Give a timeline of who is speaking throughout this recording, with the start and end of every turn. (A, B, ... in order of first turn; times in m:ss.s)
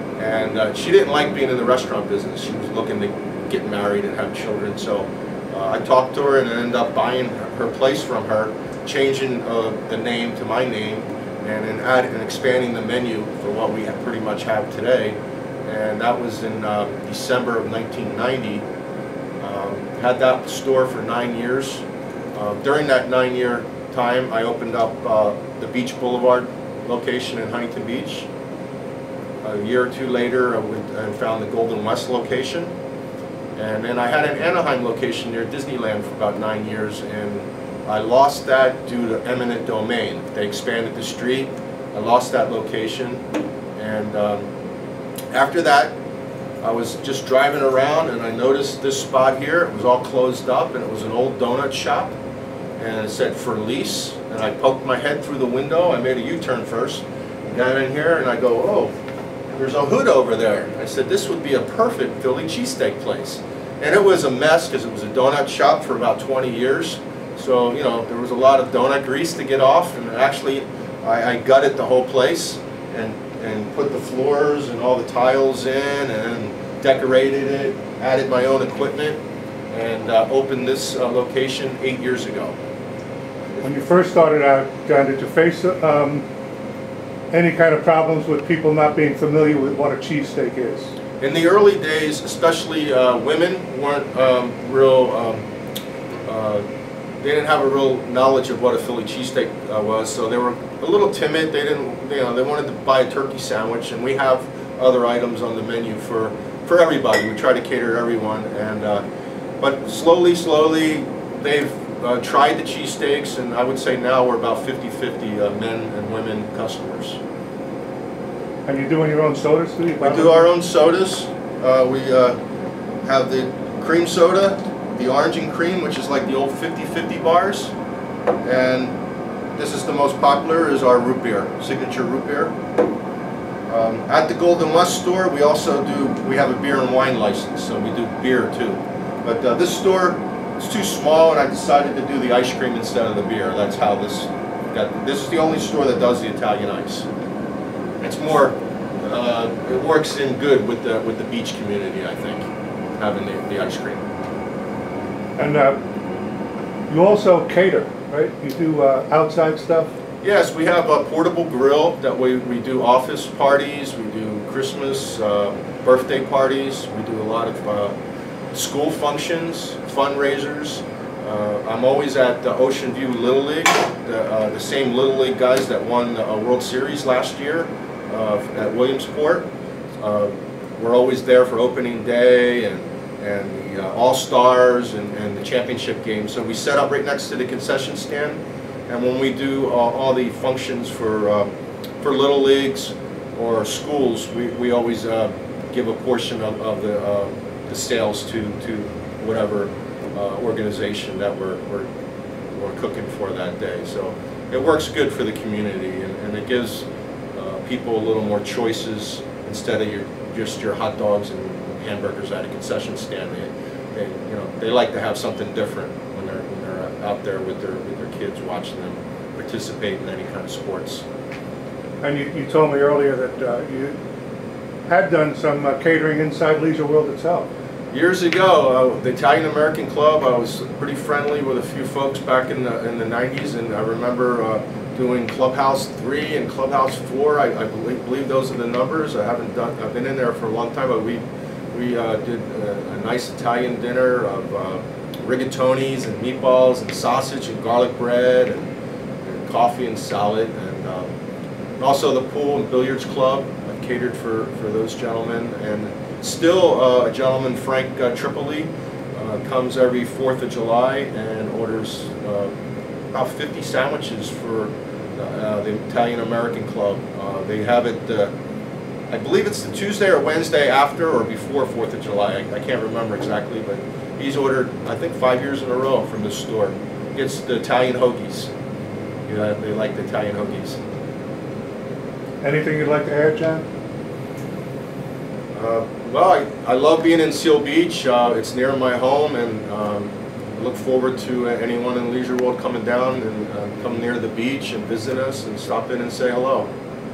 0:00.2-0:18.6 A
0:19.4-0:28.3 A
0:29.4-0:32.7 A
0:33.6-0:43.2 A
0:43.8-0:44.5 A
0:45.3-0:46.0 A
0:46.6-0:52.1 A
0:52.8-0:58.9 A
0:59.5-1:19.2 A
1:19.7-1:22.6 A
1:23.6-1:26.2 B
1:27.3-1:30.9 B
1:31.2-1:35.4 A
1:36.2-1:36.6 A
1:37.2-1:49.0 A
1:49.6-1:57.2 A
1:58.6-2:00.5 B
2:00.0-2:02.4 A
2:03.0-2:07.7 A
2:08.4-2:09.0 A
2:09.5-2:12.6 A
2:13.7-2:27.1 A
2:28.0-2:34.0 A
2:35.4-2:35.8 B
2:36.9-2:39.9 B
2:40.2-2:47.9 A
2:48.5-3:21.9 A
3:22.5-3:41.0 A
3:42.0-3:44.0 B
3:44.9-3:47.5 B
3:47.9-4:11.1 A
4:11.8-4:22.5 A
4:23.1-4:28.3 A
4:29.1-4:38.5 A
4:39.3-4:40.8 A
4:42.4-4:43.6 B
4:45.5-4:56.7 A